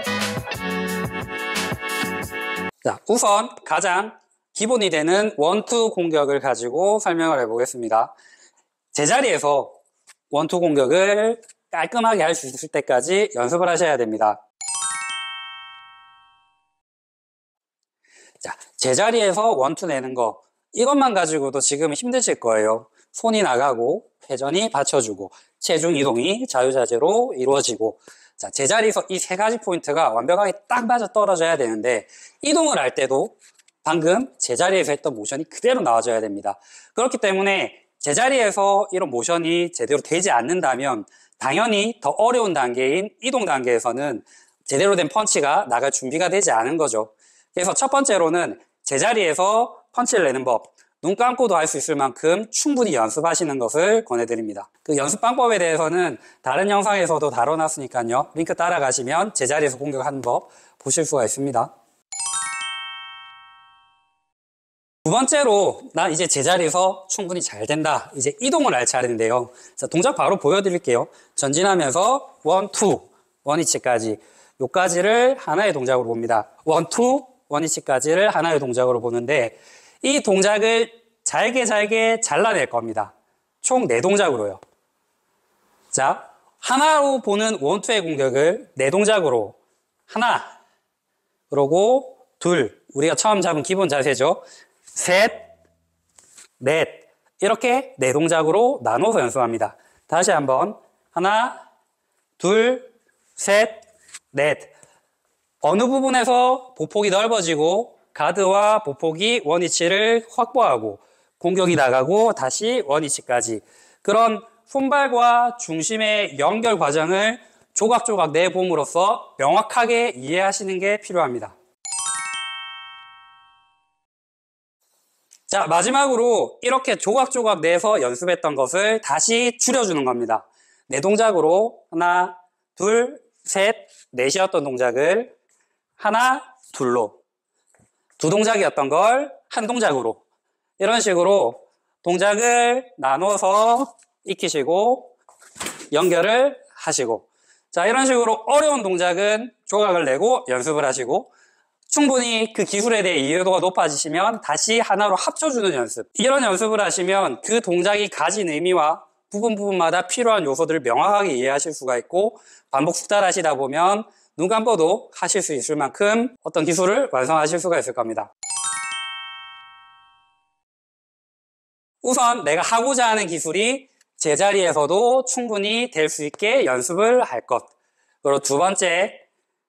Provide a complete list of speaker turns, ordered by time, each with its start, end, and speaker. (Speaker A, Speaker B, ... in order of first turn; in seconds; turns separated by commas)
Speaker A: 2.8-8.1, Speaker A: 8.9-9.8, Speaker A: 10.3-14.4, Speaker A: 18.4-61.7, Speaker A: 65.0-84.6, Speaker A: 85.9-89.6, Speaker A: 90.1-90.5, Speaker A: 91.5-94.4, Speaker A: 95.0-95.5, Speaker A: 96.6-101.6, Speaker A: 102.4-104.7, Speaker A: 105.6-121.5, Speaker A: 125.5-135.3, Speaker A: 136.0-137.2, Speaker A: 138.2-140.2, Speaker A: 140.8-145.1, Speaker A: 145.9-151.3, Speaker A: 151.9-168.3, Speaker A: 172.0-177.7, Speaker A: 178.2-179.2